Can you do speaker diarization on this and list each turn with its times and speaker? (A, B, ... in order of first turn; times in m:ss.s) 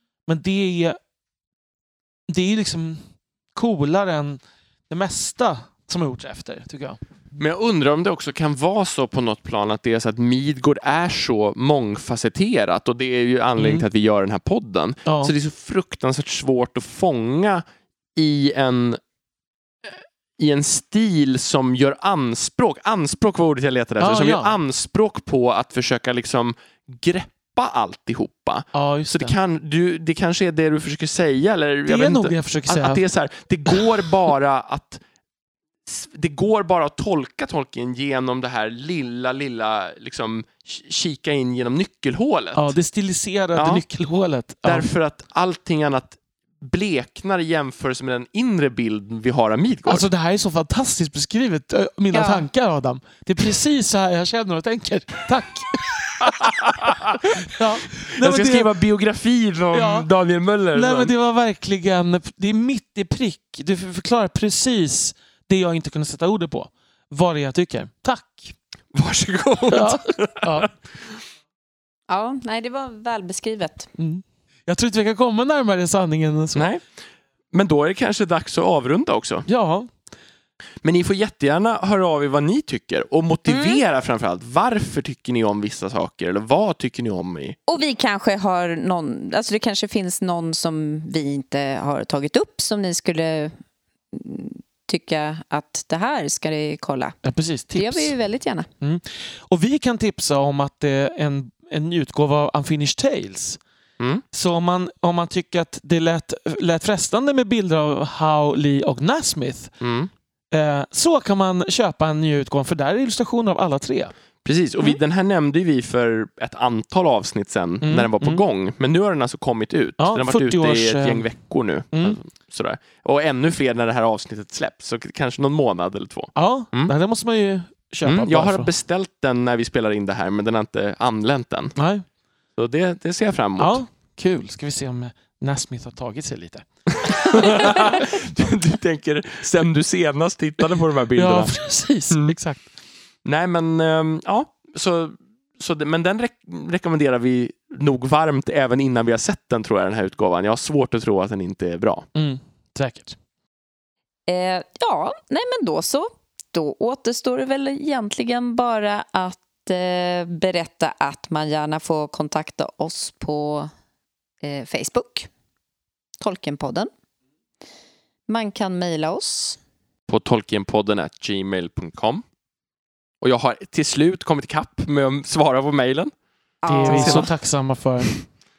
0:00.3-0:01.0 A
0:02.3-0:07.0 A
0:07.4-0:17.6 B
0:13.6-0:13.8 A
0:15.0-0:15.3 A
0:18.2-0:19.0 B
0:19.8-0:35.0 B
0:24.0-0:24.6 A
0:28.7-0:29.4 A
0:31.9-0:33.0 A
0:33.7-0:34.1 A
0:35.8-0:42.7 B
0:42.5-0:44.9 A
0:43.6-0:43.8 B
0:44.6-0:50.1 B
0:49.8-0:58.7 A
0:52.1-0:52.4 C
0:56.2-0:57.3 B
0:57.9-1:01.1 B
0:59.7-1:00.1 A
1:00.7-1:08.6 A
1:08.9-1:11.2 B
1:09.7-1:10.7 A
1:12.1-1:13.9 C
1:14.0-1:16.7 A
1:16.5-1:16.8 B
1:17.5-1:19.4 B
1:19.5-1:19.9 A
1:20.8-1:27.6 B
1:23.5-1:23.8 C
1:27.7-1:33.5 C
1:34.1-1:37.2 C
1:37.2-1:38.1 A
1:37.7-1:38.7 C
1:38.8-1:43.6 A
1:44.3-1:49.7 A
1:49.8-1:50.1 B
1:50.5-1:54.1 A
1:54.4-2:06.9 B
1:57.8-1:58.4 A
2:00.0-2:01.3 A
2:01.9-2:02.2 A
2:06.4-2:08.7 A
2:08.0-2:11.8 B
2:11.8-2:12.0 A
2:12.6-2:13.8 B
2:13.6-2:18.0 A
2:16.9-2:21.6 B
2:21.2-2:22.7 A
2:23.2-2:32.0 B
2:32.1-2:33.2 A
2:34.3-2:43.7 C
2:44.4-2:45.3 C
2:46.2-2:46.9 C
2:48.3-2:49.6 C
2:50.1-2:52.2 B
2:53.2-2:56.1 B
2:56.6-2:57.3 C
2:56.7-2:58.2 A
2:56.8-2:57.3 B